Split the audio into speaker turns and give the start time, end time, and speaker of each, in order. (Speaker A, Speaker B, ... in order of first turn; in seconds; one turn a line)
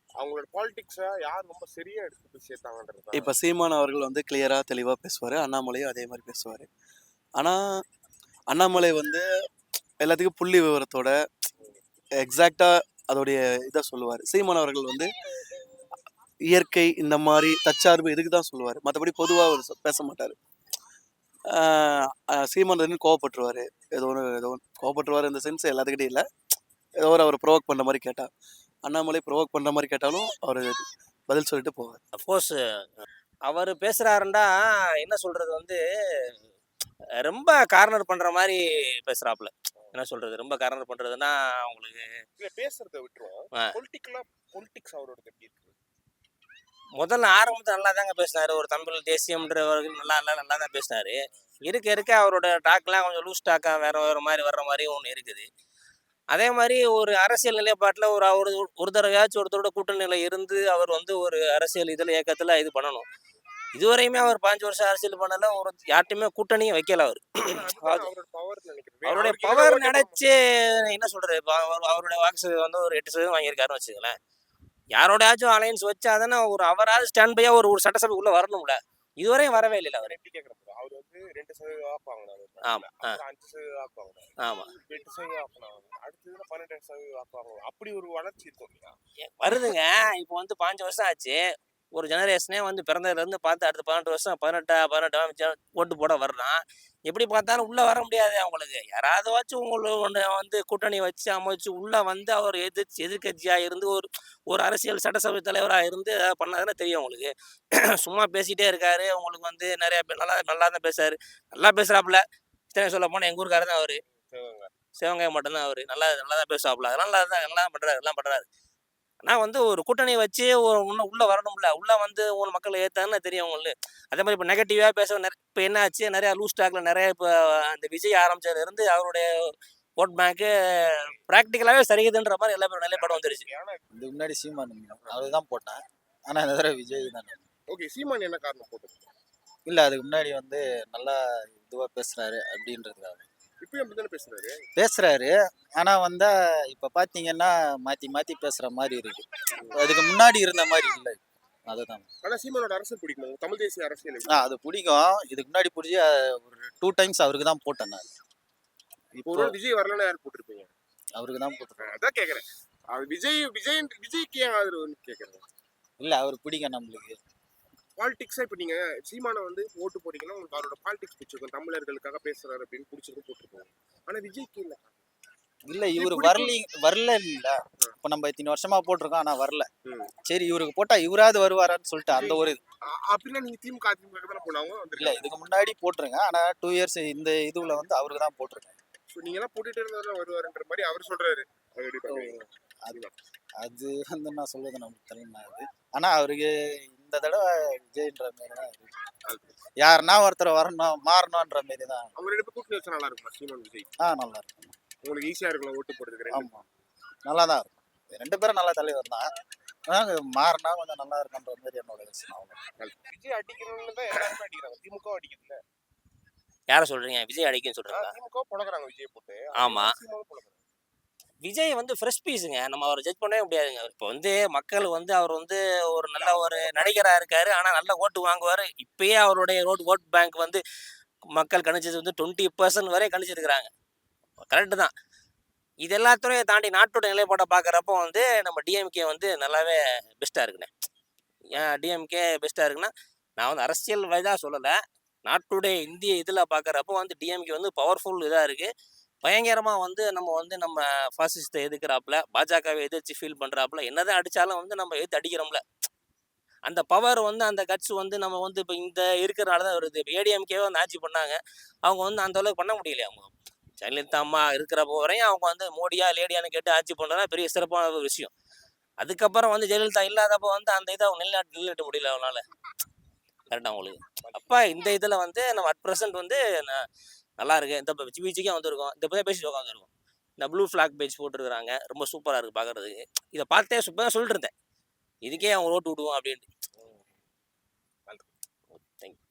Speaker A: 0.2-3.3
Speaker B: 3.1-6.7
Speaker B: 8.5-9.2
Speaker B: 10.0-11.1
Speaker B: 12.2-15.1
Speaker B: 16.5-20.4
Speaker B: 21.6-26.2
Speaker B: 27.0-28.3
Speaker B: 28.8-32.0
Speaker C: 32.2-35.8
Speaker C: 37.2-42.0
Speaker A: 42.4-45.8
Speaker C: 47.0-55.5
Speaker C: 56.3-63.0
Speaker C: 63.8-68.1
Speaker A: 67.5-70.2
Speaker C: 69.0-74.2
Speaker C: 74.9-80.2
Speaker A: 79.9-89.0
Speaker C: 82.7-83.2
Speaker C: 84.4-84.7
Speaker C: 89.4-91.4
Speaker C: 91.9-107.3
Speaker C: 108.0-112.2
Speaker C: 112.7-114.0
Speaker A: 114.3-114.7
Speaker C: 115.0-118.5
Speaker C: 119.2-129.2
Speaker C: 130.0-133.5
Speaker A: 132.9-133.8
Speaker D: 133.9-137.4
Speaker A: 137.7-139.1
Speaker D: 139.7-143.2
Speaker A: 143.6-144.7
Speaker D: 144.8-152.1
Speaker A: 152.2-154.3
Speaker D: 154.3-158.1
Speaker D: 159.2-159.6
Speaker A: 159.3-160.7
Speaker D: 161.2-161.9
Speaker A: 161.8-165.4
Speaker D: 166.0-167.2
Speaker A: 168.0-175.0
Speaker D: 175.7-179.7
Speaker A: 175.9-176.5
Speaker D: 180.2-182.6
Speaker A: 182.1-185.3
Speaker D: 185.0-188.8
Speaker A: 189.1-193.1
Speaker D: 193.6-198.9
Speaker A: 199.2-199.6
Speaker D: 199.8-202.1
Speaker A: 202.2-203.9
Speaker D: 204.0-204.7
Speaker A: 205.0-206.5
Speaker D: 206.3-206.6
Speaker D: 207.2-209.2
Speaker D: 209.9-212.6
Speaker A: 212.8-215.6
Speaker C: 216.7-218.1
Speaker A: 217.9-220.6
Speaker C: 219.6-219.9
Speaker C: 221.4-230.6
Speaker A: 226.2-227.0
Speaker C: 231.4-233.7
Speaker C: 234.5-234.9
Speaker C: 235.8-240.7
Speaker C: 241.5-244.7
Speaker C: 245.2-248.7
Speaker C: 249.2-255.6
Speaker C: 256.7-268.3
Speaker C: 269.0-272.4
Speaker C: 273.5-276.8
Speaker A: 274.2-274.6
Speaker C: 277.4-279.9
Speaker C: 280.4-284.5
Speaker C: 285.2-286.4
Speaker A: 286.8-287.1
Speaker C: 288.8-289.2